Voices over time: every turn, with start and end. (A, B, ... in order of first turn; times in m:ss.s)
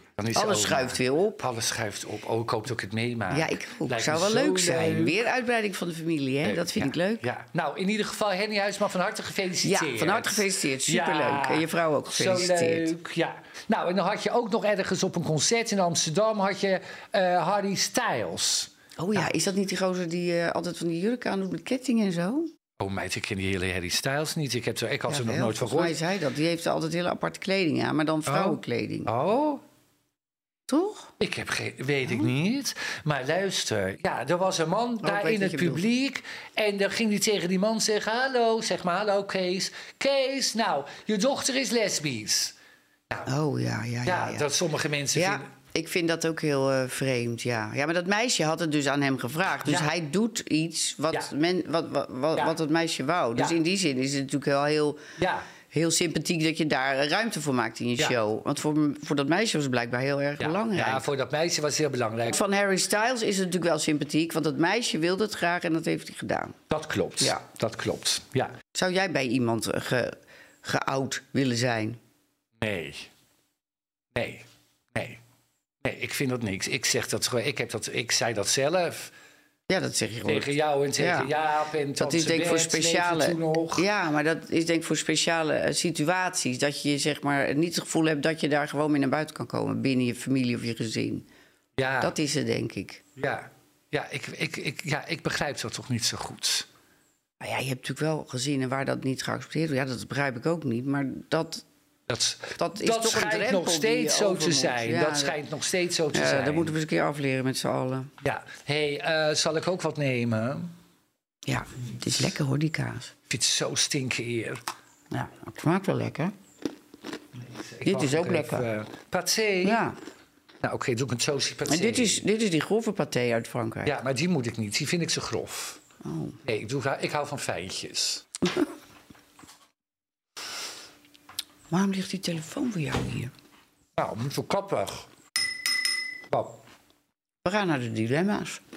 0:00.2-0:05.2 A
0:00.3-0:01.4 B
0:03.3-0:07.3 B
0:06.4-0:19.3 A
0:09.6-0:12.9 B
0:19.0-0:22.5 B
0:22.8-0:26.0 A
0:25.1-0:29.1 B
0:28.3-0:29.6 A
0:30.7-0:31.1 B
0:31.2-0:42.6 A
0:35.0-0:35.8 B
0:43.3-0:44.4 B
0:44.0-0:45.5 A
0:45.1-0:55.1 B
0:49.6-0:49.9 A
0:55.2-0:55.4 A
0:55.7-1:01.1 B
1:00.4-1:02.4 A
1:02.3-1:06.6 B
1:06.7-1:08.6 A
1:08.7-1:12.0 B
1:12.6-1:13.1 A
1:14.1-1:15.2 A
1:15.8-1:19.1 A
1:19.7-1:21.3 B
1:20.3-1:23.8 A
1:22.0-1:31.3 B
1:31.8-1:32.1 A
1:32.0-1:33.0 B
1:33.2-1:36.7 A
1:37.4-1:41.6 B
1:42.1-1:46.8 A
1:42.6-1:45.4 B
1:46.1-1:48.1 B
1:48.2-1:50.7 A
1:51.5-1:53.1 B
1:53.3-1:54.6 A
1:55.1-1:56.3 B
1:57.4-1:59.8 A
1:57.8-1:58.6 B
1:59.6-2:00.0 B
2:00.6-2:02.2 A
2:01.7-2:03.9 B
2:03.8-2:05.8 A
2:06.0-2:06.4 B
2:06.4-2:08.2 A
2:11.7-2:13.3 B
2:14.0-2:15.1 A
2:16.3-2:16.6 A
2:17.4-2:18.6 B